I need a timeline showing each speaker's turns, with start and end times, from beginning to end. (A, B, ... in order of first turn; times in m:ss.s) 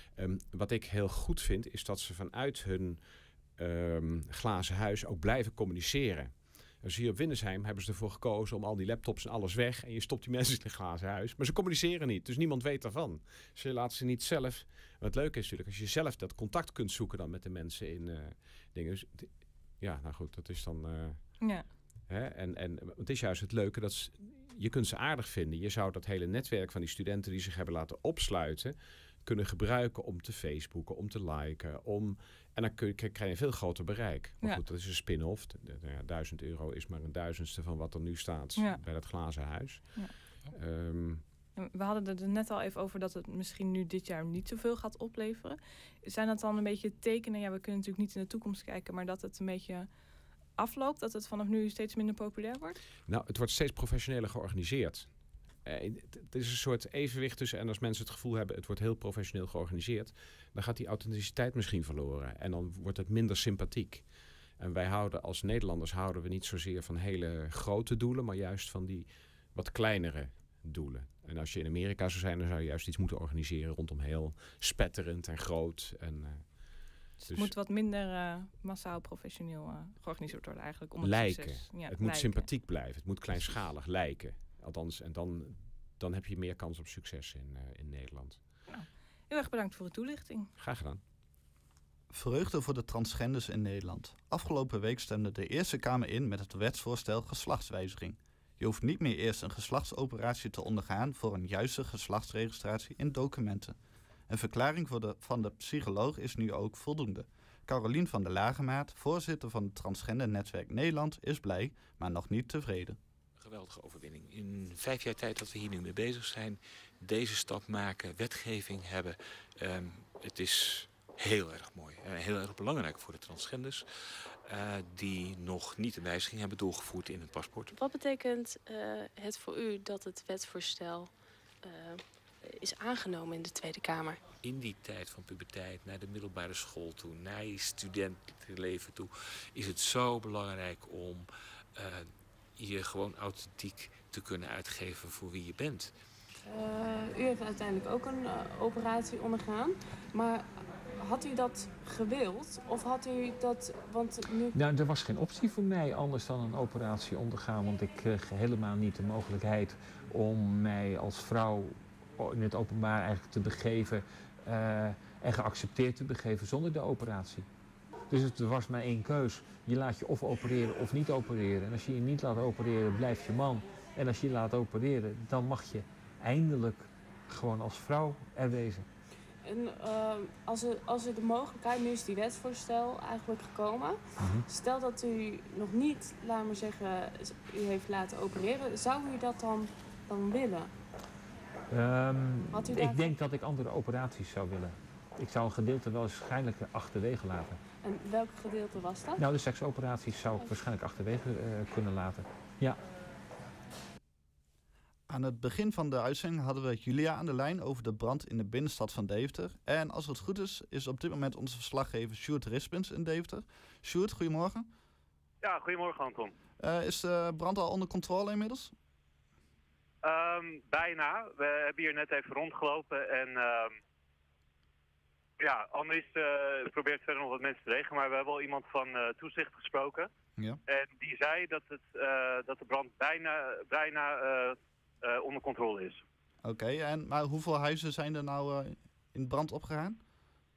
0:00.2-0:03.0 A
0:03.6-0:41.2 A
0:38.6-0:38.8 B
0:41.6-0:49.9 B
0:50.6-0:52.8 B
0:53.0-1:17.5 A
1:17.2-1:22.5 B
1:21.0-1:28.4 A
1:28.7-1:30.5 B
1:30.6-1:31.0 A
1:32.1-1:43.8 C
1:44.3-1:53.0 C
1:53.4-2:07.7 D
2:07.7-2:14.2 E
2:14.4-2:25.9 D
2:26.4-2:34.6 F
2:34.5-2:47.4 G
2:48.1-2:58.9 G
2:59.4-3:10.7 F
3:04.2-3:04.4 G
3:11.7-3:17.6 G
3:12.5-3:13.2 F
3:17.8-3:19.2 F
3:19.2-3:22.8 G
3:20.4-3:20.6 F
3:25.1-3:34.7 C
3:35.4-3:36.3 H
3:36.6-3:38.7 C
3:40.0-3:43.8 H
3:45.4-3:50.1 H
3:50.7-3:56.0 H
3:56.4-4:00.0 C